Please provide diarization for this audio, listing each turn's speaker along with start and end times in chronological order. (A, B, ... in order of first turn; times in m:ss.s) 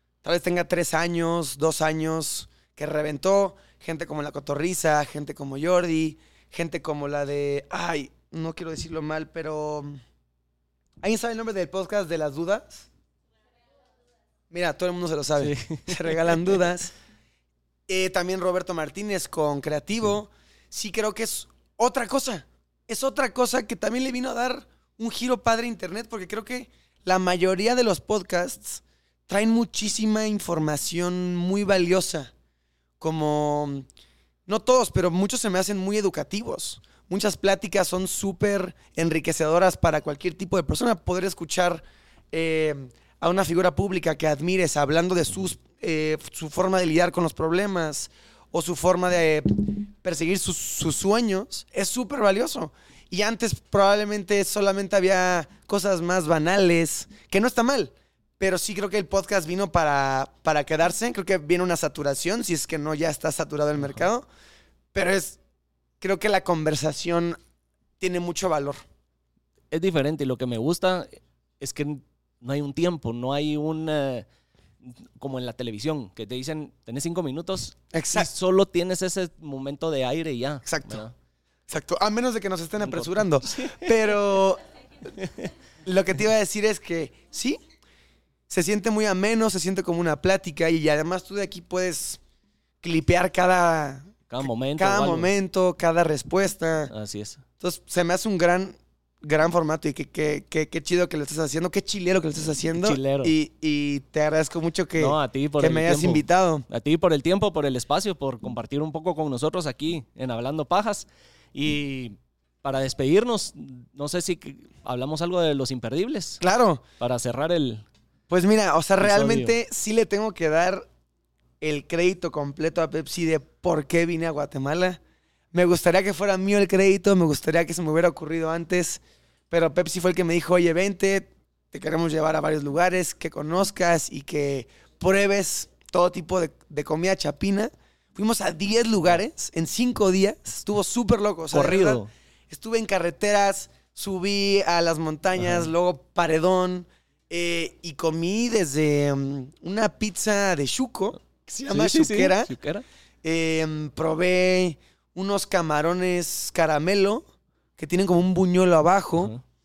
0:00.2-0:10.0 A
0:11.0-0:12.9 A
0:14.5-0:16.9 A
0:15.4-0:16.5 B
0:17.9-0:32.3 A
0:33.0-0:33.8 A
0:34.5-1:04.2 A
1:03.8-1:04.0 B
1:04.9-1:05.4 A
1:06.0-1:07.4 A
1:08.0-1:08.8 A
1:09.7-1:14.2 B
1:14.8-1:21.1 B
1:17.9-1:18.3 A
1:20.6-1:21.0 A
1:21.7-1:24.6 A
1:22.8-1:24.1 B
1:25.2-1:25.5 B
1:25.8-1:27.6 A
1:28.5-1:32.2 A
1:32.8-1:34.1 A
1:34.3-1:35.3 B
1:34.8-1:36.9 A
1:36.9-1:37.4 B
1:37.6-1:46.6 A
1:42.6-1:43.3 B
1:45.0-1:56.4 B
1:56.4-1:56.8 A
1:57.0-1:57.8 B
1:58.3-2:00.8 A
1:59.0-1:59.6 B
2:01.6-2:05.0 A
2:05.5-2:32.5 A
2:21.5-2:22.1 B
2:25.4-2:25.7 B
2:31.7-2:32.8 B
2:33.2-2:37.2 A
2:37.8-2:39.3 A